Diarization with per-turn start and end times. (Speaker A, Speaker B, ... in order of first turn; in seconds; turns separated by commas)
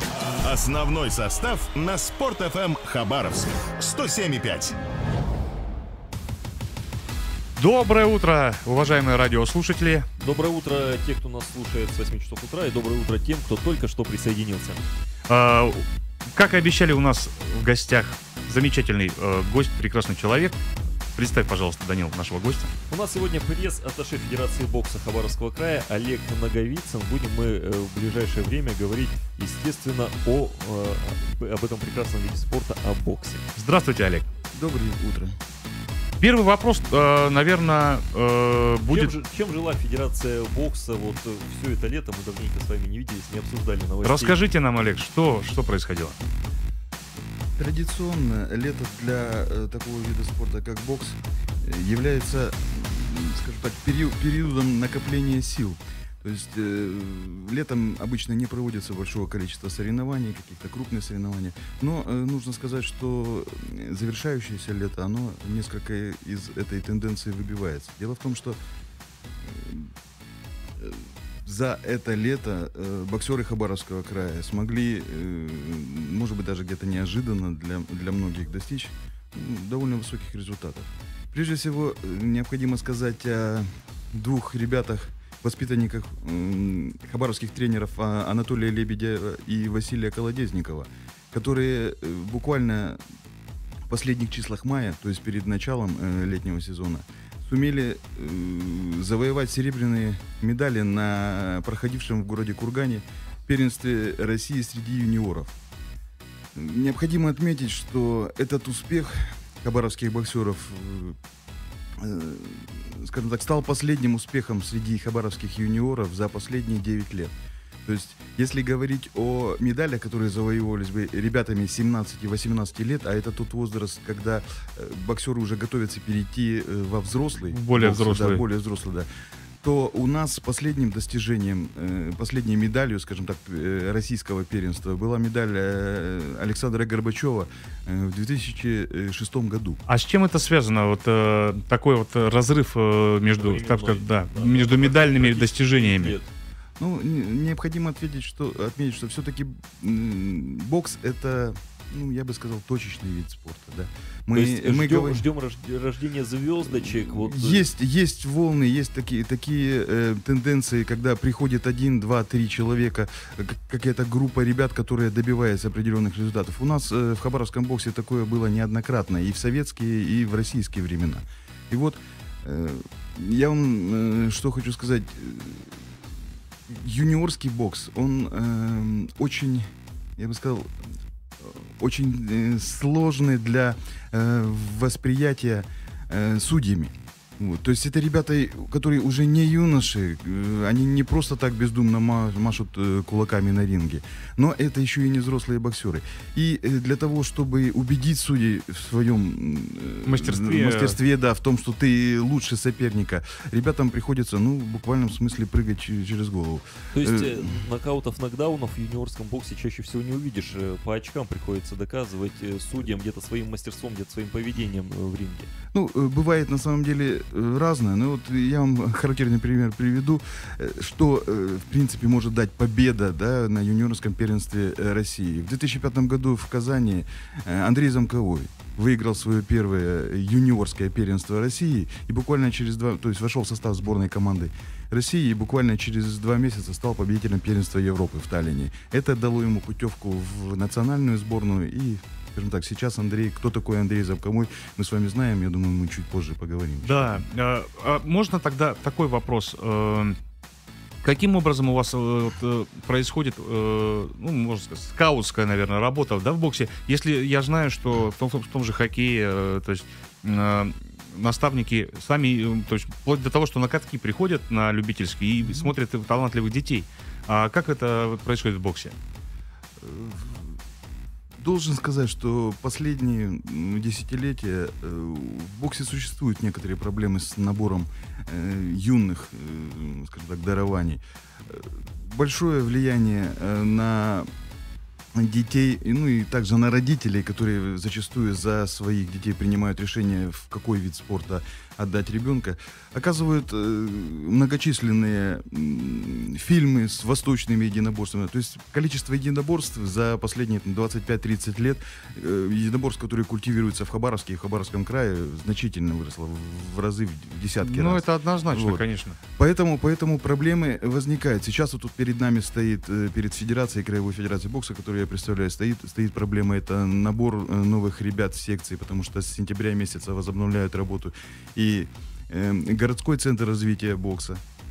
Speaker A: 0.4-4.8, Speaker B: 7.5-10.1, Speaker C: 10.2-14.9, Speaker B: 15.3-20.5, Speaker B: 21.1-22.7, Speaker C: 22.9-33.4, Speaker B: 33.5-34.2, Speaker D: 34.5-35.4, Speaker B: 36.2-39.1, Speaker C: 38.9-44.4, Speaker B: 44.0-46.2, Speaker D: 47.6-68.6, Speaker D: 69.4-69.9, Speaker D: 70.8-93.0, Speaker D: 93.9-105.5, Speaker D: 106.5-111.2, Speaker D: 112.0-117.3, Speaker D: 117.8-129.1, Speaker B: 127.5-128.4, Speaker D: 129.6-139.8, Speaker B: 139.9-146.2, Speaker C: 143.3-146.3, Speaker D: 146.8-155.2, Speaker C: 154.3-157.7, Speaker D: 156.7-176.0, Speaker D: 176.7-180.8, Speaker D: 181.4-207.6, Speaker B: 200.1-201.0, Speaker C: 206.9-215.5, Speaker D: 215.7-247.2, Speaker B: 246.8-250.2, Speaker B: 251.0-268.9, Speaker D: 265.5-265.7, Speaker D: 269.8-270.6, Speaker D: 271.4-284.3, Speaker D: 285.1-308.8, Speaker B: 307.6-309.2, Speaker D: 309.4-324.4